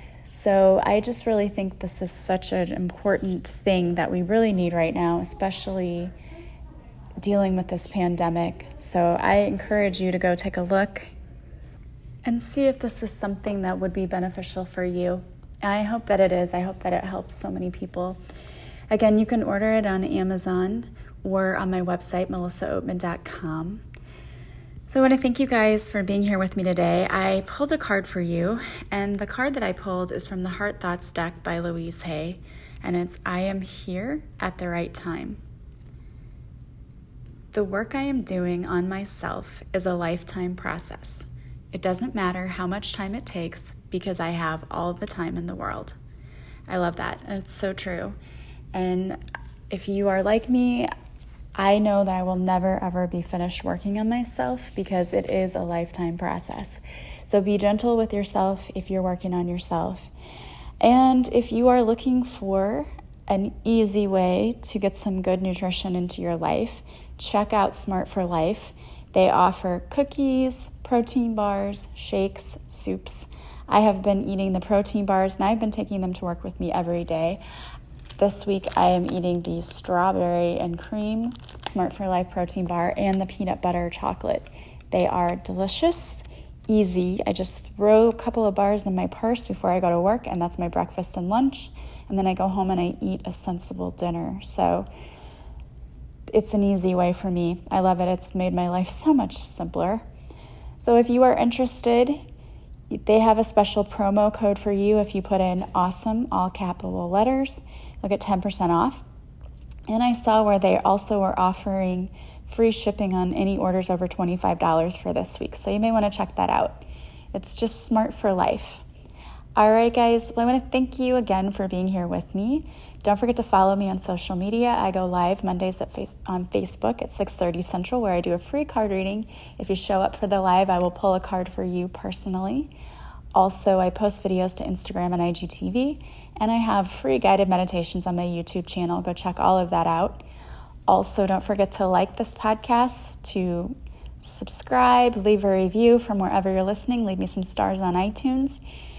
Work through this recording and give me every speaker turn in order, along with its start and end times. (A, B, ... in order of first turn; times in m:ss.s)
0:00.3-0:06.1 A
0:07.2-0:11.1 A
0:12.2-0:18.2 A
0:18.9-0:23.8 A
0:24.9-0:35.4 A
0:37.5-0:46.0 A
0:46.7-0:48.2 A
0:48.7-0:49.2 A
0:49.7-0:50.9 A
0:51.6-1:00.1 A
1:00.8-1:17.4 A
1:18.2-1:34.9 A
1:36.3-1:40.0 A
1:40.8-1:42.2 A
1:42.9-1:49.0 A
1:49.9-1:58.8 A
1:59.6-2:12.7 A
2:13.3-2:20.2 A
2:20.9-2:28.6 A